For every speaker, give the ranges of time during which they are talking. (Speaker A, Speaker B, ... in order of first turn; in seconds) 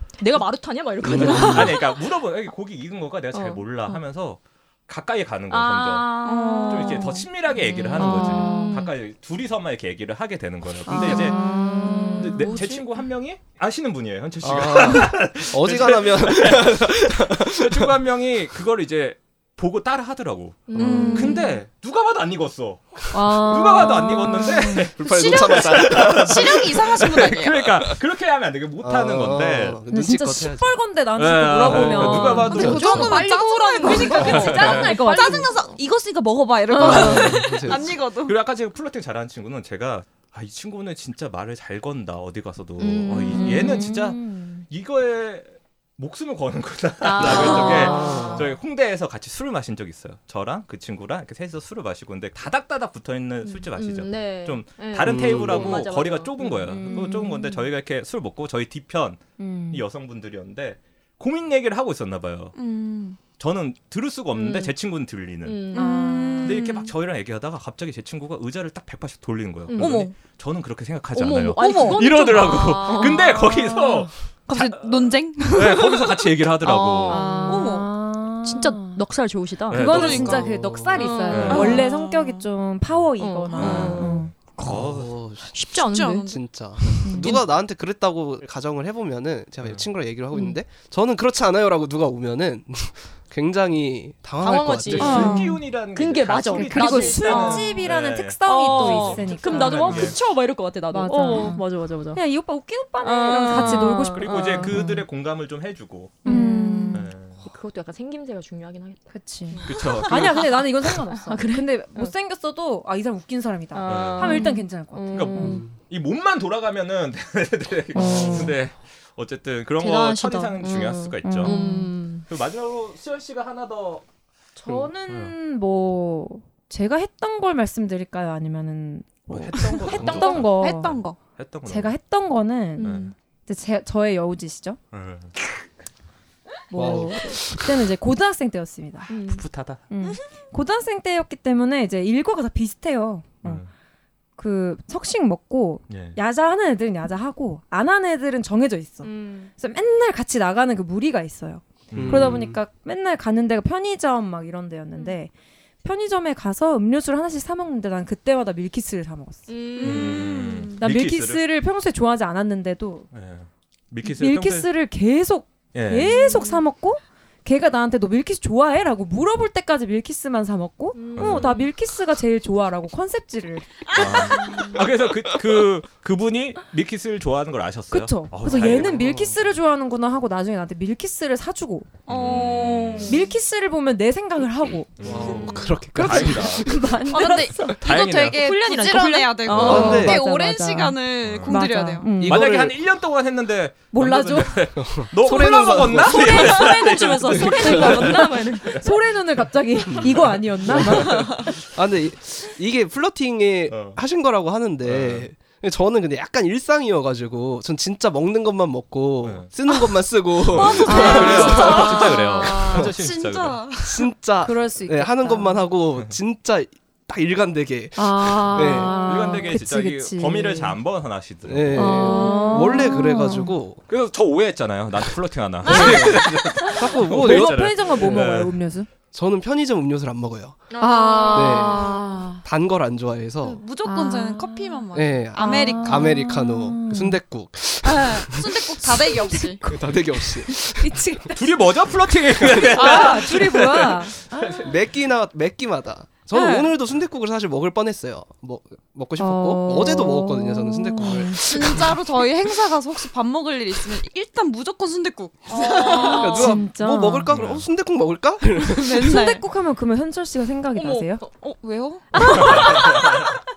Speaker A: 0.2-2.0, 3.3-4.0, 5.5-8.9, 10.9-12.7, 20.7-21.4, 31.9-35.5, 36.8-37.4, 42.8-43.8, 47.0-48.5, 53.5-56.8, 64.3-64.7, 65.5-66.3, 69.7-70.2, 71.2-73.3, 77.0-77.9, 78.4-80.2, 81.0-82.2, 83.2-87.5, 94.4-97.8, 98.5-102.2, 103.0-104.8, 106.2-109.7, 110.8-112.1, 113.7-115.7, 119.8-122.3, 132.8-133.1, 139.1-139.4, 149.0-149.5, 159.5-160.5, 166.1-166.6, 171.0-171.7, 174.3-174.7, 182.3-183.0, 188.2-190.9, 195.3-198.7, 200.9-201.3, 221.9-222.8, 246.3-246.7, 255.5-256.6, 260.8-261.1, 262.2-263.0
Speaker B: 1.0-1.7, 14.4-17.9, 20.8-21.2, 25.0-26.6, 28.8-30.8, 31.7-32.8, 36.8-37.9, 47.9-48.4, 55.0-55.8, 80.2-81.1, 84.7-85.6, 86.2-95.4, 118.0-118.6, 129.6-130.3, 136.7-137.6, 151.9-152.6, 178.5-179.3, 185.0-187.3, 189.6-190.2, 192.2-192.8, 194.8-198.2, 199.8-213.0, 213.7-219.1, 221.5-223.8, 225.6-226.2, 226.8-228.3, 229.1-230.7, 231.3-233.6, 234.9-238.7, 239.7-241.2, 242.3-243.2, 244.6-252.0, 256.0-259.1
Speaker C: 1.1-11.4, 12.1-29.8, 31.2-33.2, 34.1-35.0, 36.9-37.2, 38.2-62.5, 63.3-65.7, 66.4-77.4, 79.7-80.5, 81.3-81.9, 83.6-85.1, 94.9-100.2, 103.5-106.2, 106.9-107.4, 109.7-110.6, 113.9-114.5, 115.1-121.6, 122.3-124.0, 125.1-125.3, 129.3-130.6, 131.4-131.9, 132.8-133.1, 134.9-135.3, 139.2-139.8, 143.4-143.7, 145.9-146.2, 151.9-152.4, 159.8-161.4, 163.1-164.7, 165.7-166.3, 171.2-171.6, 173.9-179.2, 182.1-183.3, 185.0-186.8, 187.7-188.4, 189.5-190.0, 191.2-191.7, 192.2-198.9, 203.7-204.0, 204.8-205.3, 209.2-209.5, 210.4-213.7, 218.5-222.1, 223.9-228.6, 241.3-244.7, 257.3-257.7, 262.3-263.3
Speaker D: 6.2-7.2, 8.2-8.6, 11.1-12.8, 20.8-21.5, 25.0-27.9, 32.3-38.4, 47.3-48.3, 62.5-63.2, 65.7-66.9, 69.8-70.1, 71.5-73.5, 74.5-77.9, 79.8-81.9, 83.2-84.2, 85.7-86.4, 95.0-95.6, 106.3-106.8, 109.5-110.1, 129.9-131.2, 159.8-160.8, 174.4-174.8, 182.1-183.2, 187.1-192.2, 210.5-214.1, 222.0-222.6, 230.7-232.2, 233.4-236.4, 237.8-239.7, 242.8-243.2, 251.1-256.6, 258.6-259.5, 261.2-263.4
Speaker E: 10.9-12.7, 21.2-21.5, 23.1-24.9, 29.9-35.5, 36.8-37.3, 43.3-44.6, 56.7-57.5, 59.4-59.8, 65.8-66.6, 73.6-74.0, 77.3-79.0, 79.7-84.3, 87.0-87.4, 95.0-95.5, 96.5-100.2, 100.9-105.0, 106.2-107.1, 109.1-115.6, 117.9-118.6, 121.2-121.9, 124.6-131.0, 131.7-134.8, 136.7-139.1, 139.9-143.6, 144.4-155.3, 155.8-159.5, 160.8-163.1, 164.0-174.4, 177.9-181.9, 183.0-187.8, 189.7-192.6, 193.9-194.7, 197.5-201.6, 210.8-211.8, 214.4-215.7, 218.0-220.8, 221.7-223.6, 225.7-228.9, 230.8-232.4, 233.8-237.2, 238.8-241.5, 242.7-244.7, 249.2-251.8, 256.0-257.3, 259.0-261.2, 262.1-263.0